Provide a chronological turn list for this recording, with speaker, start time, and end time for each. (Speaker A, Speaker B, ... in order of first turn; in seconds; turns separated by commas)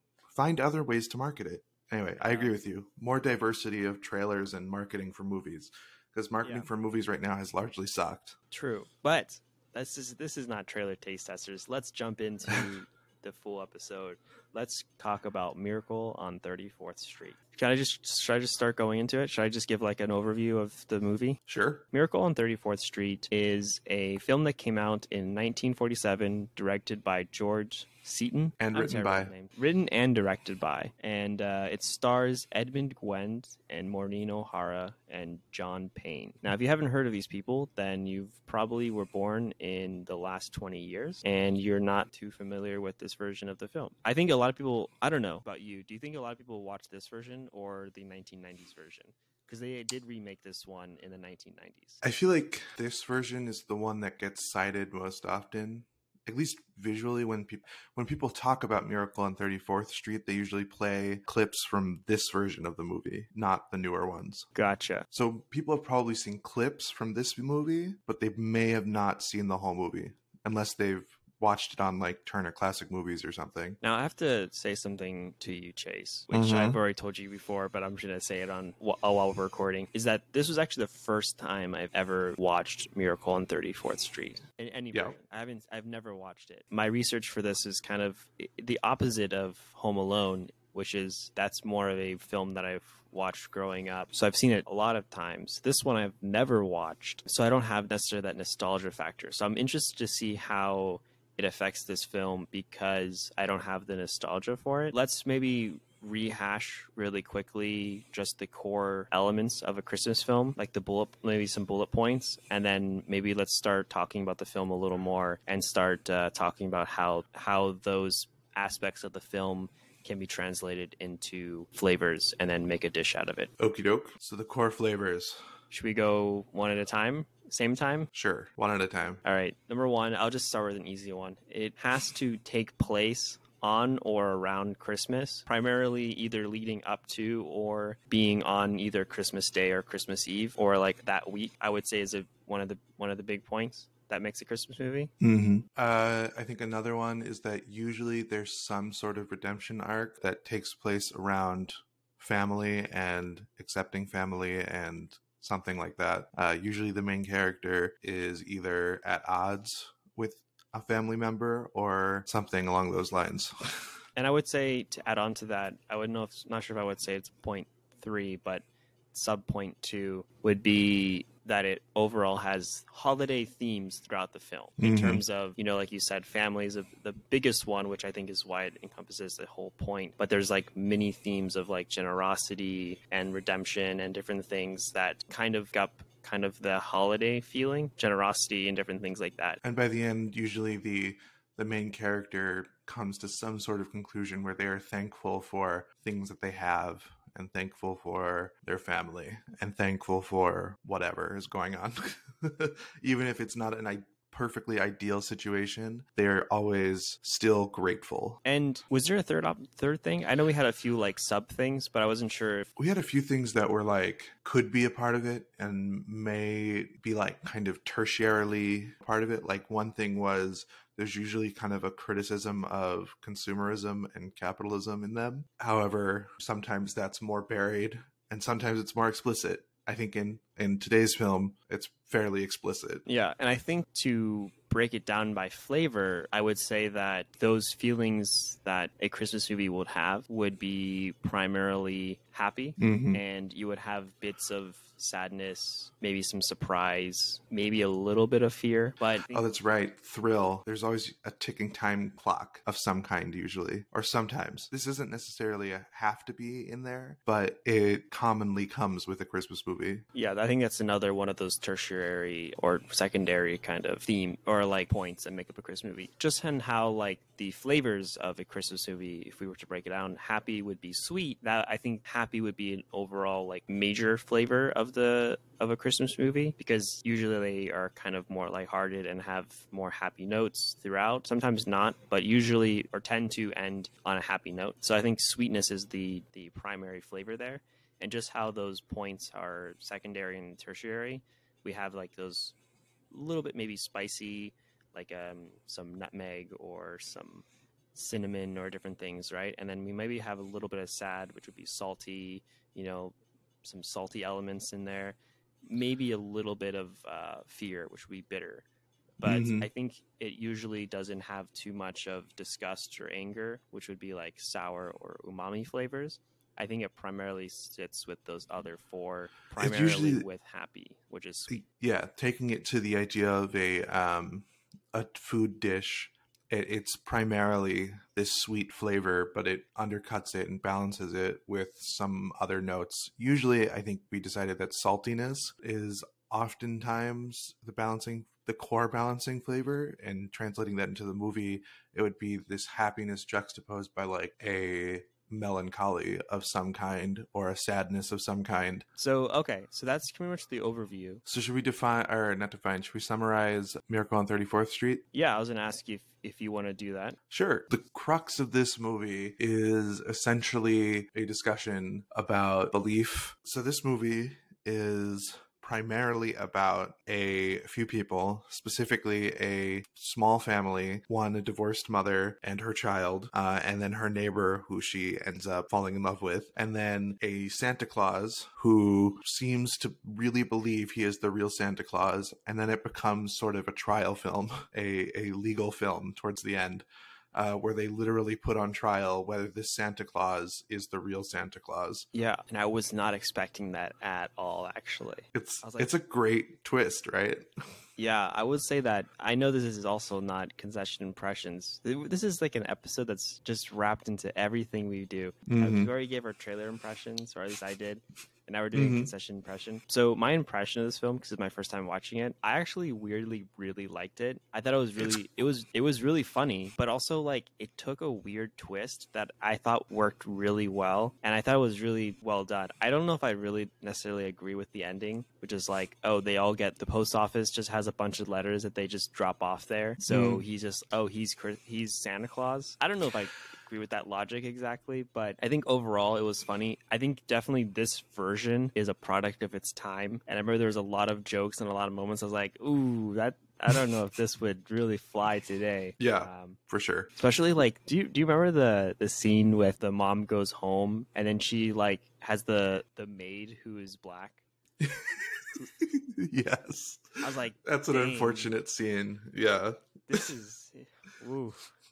Speaker A: 0.3-8.4, Speaker B: 2.2-2.5, Speaker B: 6.4-6.7, Speaker B: 8.5-21.4, Speaker A: 21.5-21.8, Speaker B: 21.9-52.0, Speaker A: 28.6-29.3, Speaker A: 52.0-64.5, Speaker B: 64.5-65.0, Speaker A: 65.1-73.8, Speaker B: 73.8-123.5, Speaker A: 76.3-76.8, Speaker A: 123.6-125.4, Speaker B: 125.7-128.1, Speaker A: 128.1-129.2, Speaker B: 129.2-145.1, Speaker A: 145.2-164.0, Speaker B: 164.2-189.6, Speaker A: 174.8-175.2, Speaker A: 189.6-208.4, Speaker B: 208.4-212.7, Speaker A: 212.8-233.1, Speaker B: 233.1-249.4, Speaker A: 242.8-243.2, Speaker A: 249.3-260.1, Speaker B: 260.1-292.6, Speaker B: 293.1-308.6, Speaker B: 309.2-321.5, Speaker A: 309.2-309.7, Speaker A: 319.6-320.3, Speaker A: 321.5-348.9, Speaker B: 349.0-351.2, Speaker A: 351.3-355.0, Speaker B: 355.1-357.2, Speaker A: 357.3-392.1, Speaker B: 392.1-395.9, Speaker A: 395.3-397.5, Speaker B: 398.0-446.6, Speaker A: 405.5-405.9, Speaker A: 408.8-409.1, Speaker A: 430.1-430.4, Speaker A: 446.0-447.1, Speaker B: 447.2-454.4, Speaker A: 454.8-460.2, Speaker B: 457.2-458.5, Speaker B: 460.1-461.7